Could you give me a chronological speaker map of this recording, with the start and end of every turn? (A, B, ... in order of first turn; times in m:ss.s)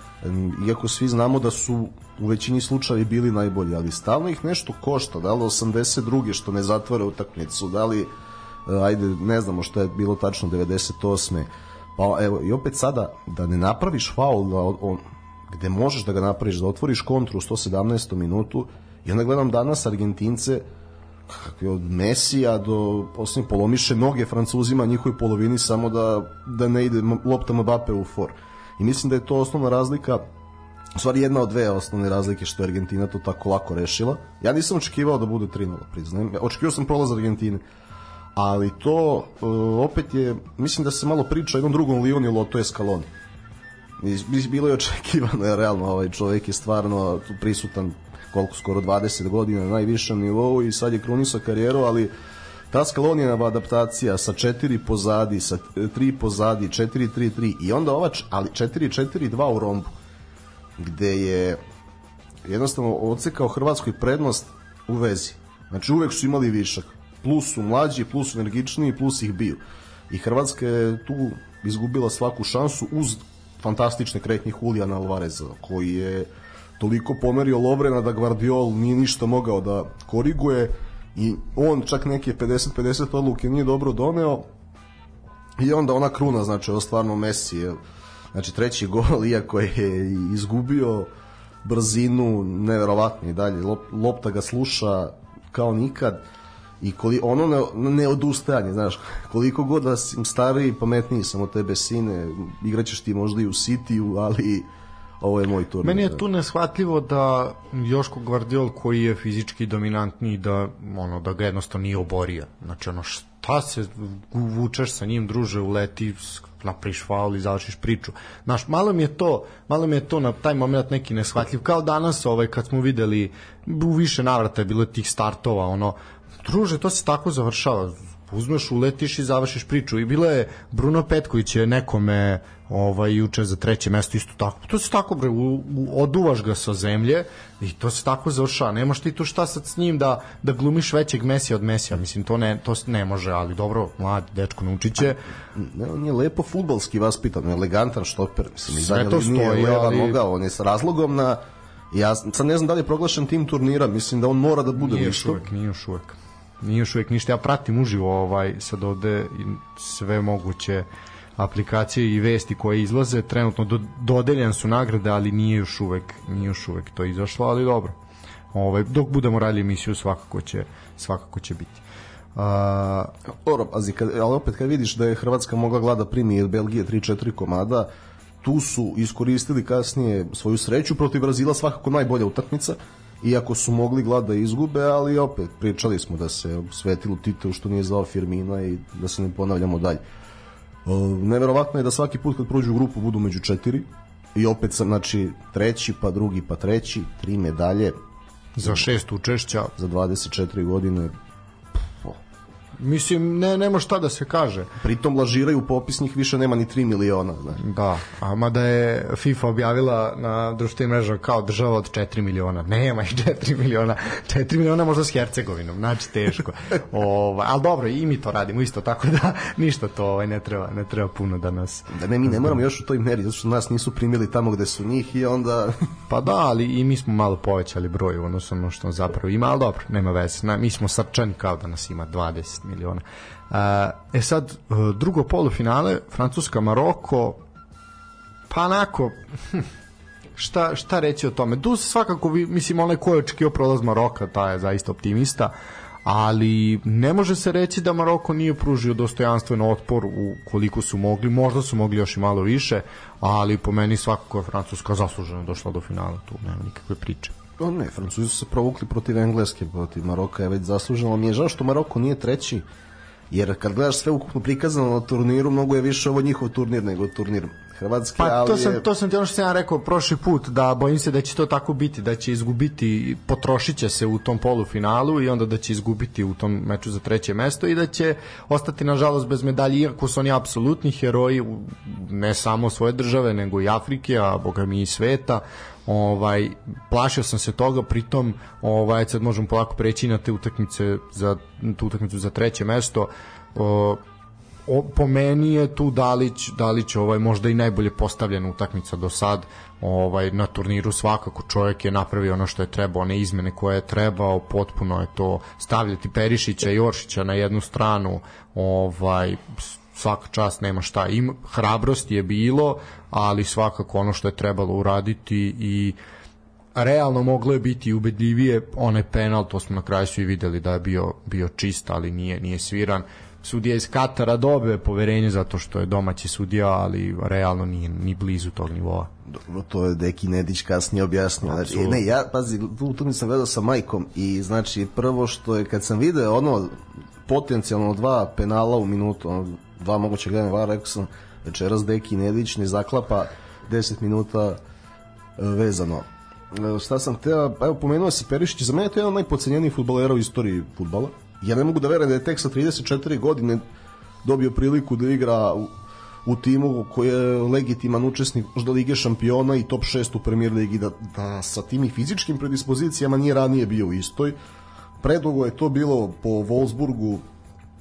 0:00.2-0:08.1 A
0:08.6-0:20.6 A
0:21.3-0:30.2 A
0:30.9-0:37.6 A
0:38.4-0:43.1 A
0:44.0-0:52.1 A
0:52.7-0:59.9 A
1:00.8-1:01.6 A
1:02.4-1:24.5 A
1:25.6-1:27.8 A
1:28.3-1:31.1 A
1:31.6-1:36.2 A
1:36.8-1:44.7 A
1:45.2-1:46.2 A
1:45.8-2:25.2 B
2:25.5-2:35.4 A
2:28.7-2:30.2 B
2:34.8-2:40.8 B
2:41.4-2:47.9 B
2:48.5-2:51.8 B
2:52.4-2:53.1 B
2:53.4-2:57.9 A
2:58.4-3:10.0 A
3:10.8-3:18.0 A
3:18.6-3:19.7 B
3:19.8-3:21.1 A
3:22.8-3:24.7 B
3:24.8-3:27.6 A
3:27.6-3:42.6 B
3:41.9-3:45.8 A
3:46.1-3:57.4 B
3:58.5-3:59.7 B
4:00.4-4:05.5 B
4:06.0-4:17.3 B
4:17.6-4:22.6 A
4:23.3-4:28.8 A
4:28.2-4:54.0 B
4:54.7-5:16.0 B
5:16.7-5:29.1 B
5:29.3-5:44.6 A
5:31.4-5:32.0 B
5:45.4-5:53.6 A
5:54.2-5:55.7 A
5:56.2-6:04.4 A
6:05.0-6:07.2 A